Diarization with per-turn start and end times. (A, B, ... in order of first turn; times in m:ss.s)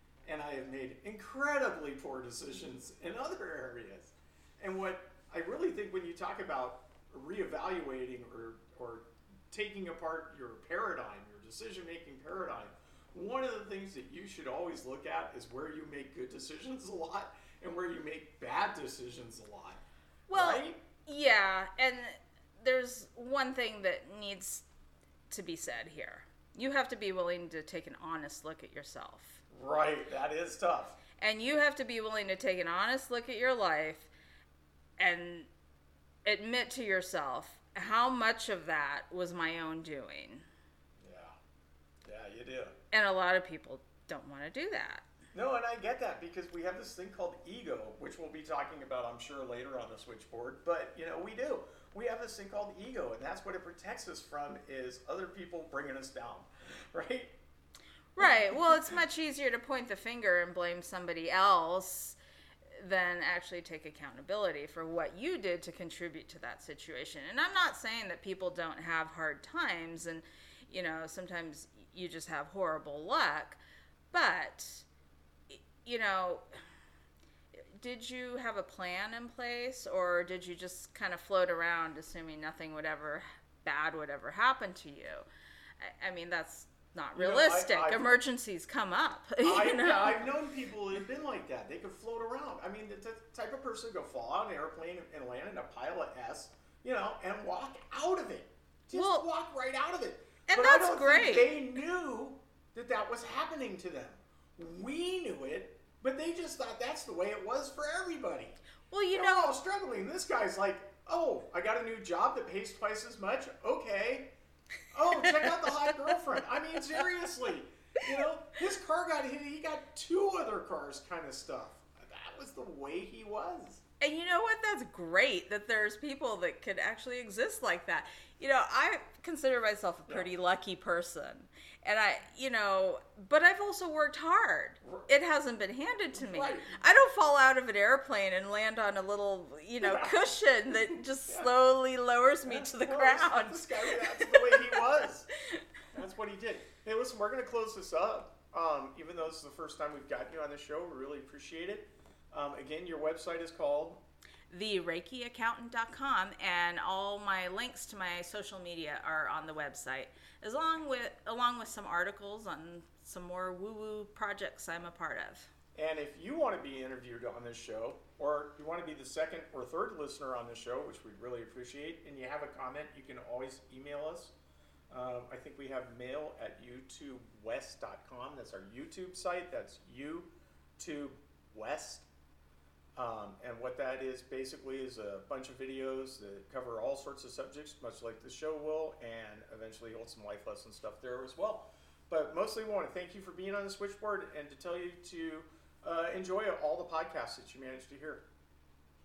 0:00.2-0:20.8 A
0:20.3-0:24.7 B
0:25.3-0:29.4 B
0:29.5-0:31.0 A
0:31.2-0:34.1 B
0:35.0-0:35.5 B
0:36.2-0:40.4 B
0:41.0-0:41.4 A
0:42.0-0:42.8 A
0:42.9-0:45.1 B
0:45.3-0:57.4 A
0:58.2-1:02.2 B
0:58.2-0:58.9 A
1:02.8-1:13.6 B
1:14.1-1:14.9 B
1:15.5-1:16.5 B
1:17.5-1:25.3 B
1:25.8-1:30.3 B
1:27.2-1:28.2 A
1:29.4-1:48.6 A
1:38.9-1:39.3 B
1:40.5-1:41.5 B
1:48.9-1:49.5 B
1:49.1-1:54.3 A
1:54.9-2:03.8 A
2:04.0-2:24.8 B
2:14.8-2:15.1 A
2:16.1-2:16.8 A
2:19.8-2:20.4 A
2:21.3-2:21.5 A
2:22.5-2:25.3 A
2:25.9-2:34.0 A
2:34.5-2:45.5 B
2:45.8-2:54.3 A
2:54.9-3:02.1 A
3:03.0-3:18.3 A